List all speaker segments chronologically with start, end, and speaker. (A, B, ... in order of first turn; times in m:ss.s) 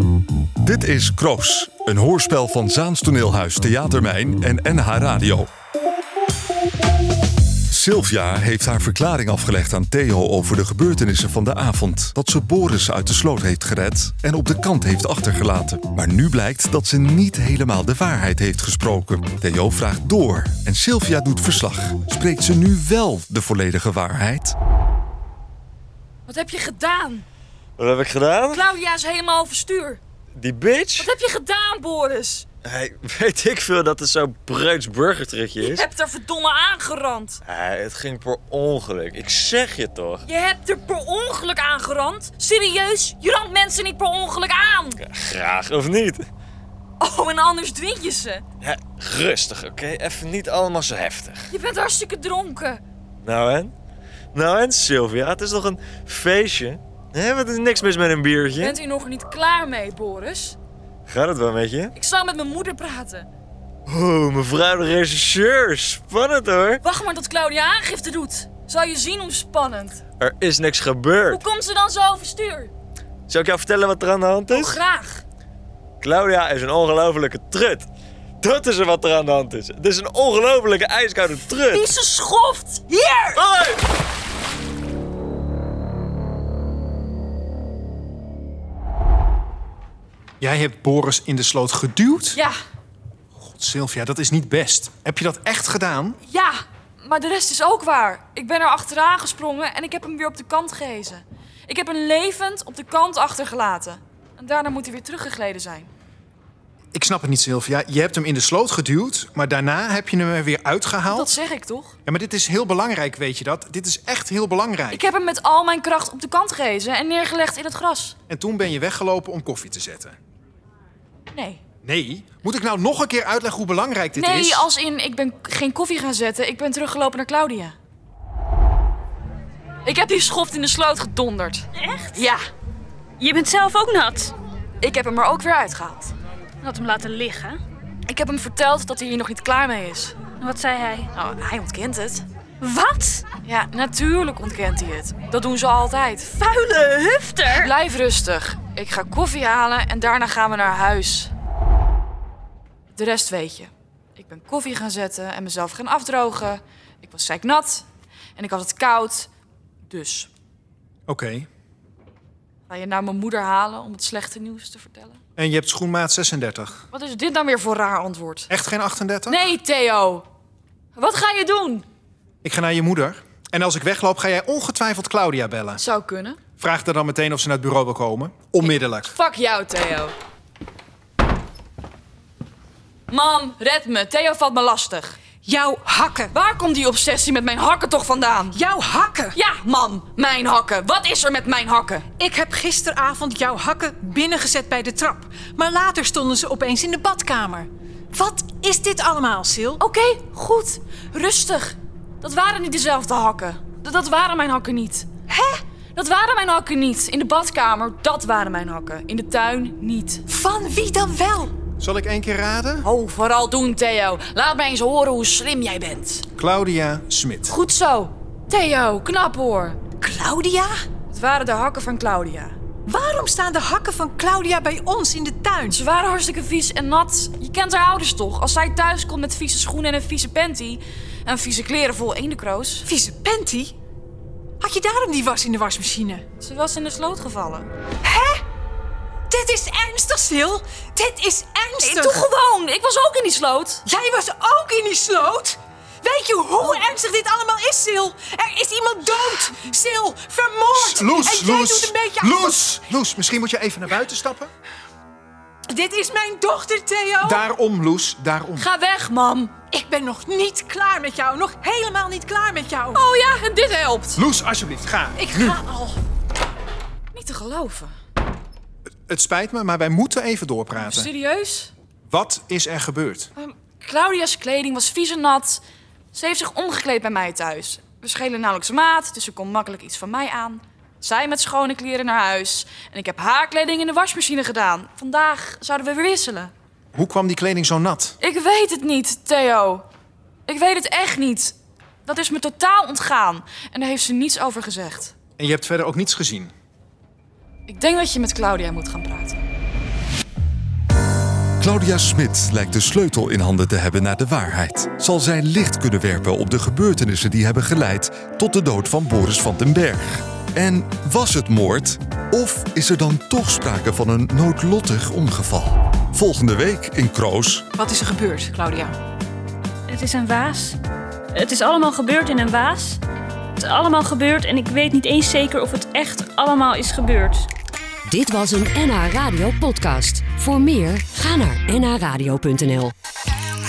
0:00.6-0:05.5 A
0:07.7-0:24.6 A
0:26.3-0:27.3 B
0:27.8-0:28.7 C
0:28.5-0:30.0 B
0:30.4-0:31.1 C
0:31.0-0:32.4 B
0:32.6-0:35.8 C
0:35.6-0:37.4 B
0:37.5-0:40.2 C
0:40.3-0:45.0 B
0:45.0-0:46.3 C
0:47.0-0:48.4 B
0:48.6-0:51.5 C
0:51.5-0:52.8 B
0:53.2-0:53.7 C
0:54.3-0:58.8 C
0:58.6-1:00.6 B
1:01.1-1:01.9 C
1:02.0-1:03.3 B
1:03.9-1:06.8 C
1:06.8-1:10.0 B
1:10.2-1:11.4 C
1:11.3-1:12.7 B
1:13.3-1:14.8 C
1:14.5-1:15.2 B
1:16.0-1:17.9 C
1:18.4-1:21.9 C
1:21.7-1:23.4 B
1:23.4-1:23.8 C
1:30.4-1:32.4 D
1:33.4-1:36.2 D
1:36.3-1:45.9 B
1:46.9-1:51.4 D
1:51.1-1:52.0 B
1:52.1-1:55.1 D
1:54.9-1:58.2 B
1:58.3-2:00.2 D
2:01.3-2:01.6 B
2:01.8-2:04.7 D
2:04.2-2:07.8 B
2:09.8-2:12.4 B
2:11.8-2:12.3 E
2:13.2-2:14.3 E
2:14.8-2:16.1 B
2:16.6-2:17.6 E
2:18.1-2:20.2 B
2:20.4-2:21.1 E
2:21.1-2:22.2 B
2:22.6-2:23.3 E
2:23.4-2:26.4 B
2:26.4-2:27.7 E
2:27.5-2:31.3 B
2:33.0-2:39.3 B
2:39.9-2:40.3 B
2:41.1-2:41.5 D
2:42.7-2:45.2 B
2:45.4-2:46.8 D
2:46.9-2:48.5 B
2:48.5-2:49.4 D
2:49.3-2:50.2 B
2:51.0-2:51.8 B
2:52.4-2:55.8 D
2:55.8-2:56.4 B
2:56.6-2:59.2 D
2:58.6-3:00.1 B
3:03.1-3:05.2 B
3:05.4-3:06.3 F
3:06.3-3:08.6 B
3:08.5-3:09.4 F
3:09.3-3:12.1 B
3:12.2-3:19.8 F
3:19.8-3:25.1 B
3:25.3-3:25.6 F
3:26.0-3:30.2 B
3:30.3-3:31.5 F
3:31.8-3:32.9 D
3:32.8-3:36.2 B
3:36.4-3:37.6 D
3:37.5-3:39.9 B
3:40.0-3:40.8 F
3:41.1-3:42.6 B
3:42.9-3:45.8 F
3:45.7-3:52.9 B
3:52.9-3:53.8 F
3:54.6-3:56.2 F
3:56.4-3:57.7 B
3:58.0-3:58.4 F
3:59.3-4:02.3 F
4:01.8-4:03.8 B
4:03.8-4:12.6 F
4:10.7-4:14.5 D
4:15.7-4:17.4 F
4:17.2-4:18.7 D
4:18.6-4:19.6 B
4:19.7-4:23.0 F
4:22.9-4:24.2 B
4:24.2-4:25.6 D
4:25.2-4:26.0 F
4:27.1-4:28.0 B
4:29.1-4:31.1 D
4:30.8-4:31.7 B
4:32.1-4:33.3 D
4:33.4-4:46.5 B
4:46.9-4:48.2 D
4:48.2-4:49.8 B
4:50.5-4:51.5 B
4:52.0-4:55.1 B
4:55.4-4:56.5 D
4:57.7-4:59.4 B
5:01.6-5:17.6 A
5:17.8-5:19.0 F
5:19.9-5:20.8 E
5:21.3-5:23.0 E
5:23.6-5:27.5 E
5:28.1-5:32.9 G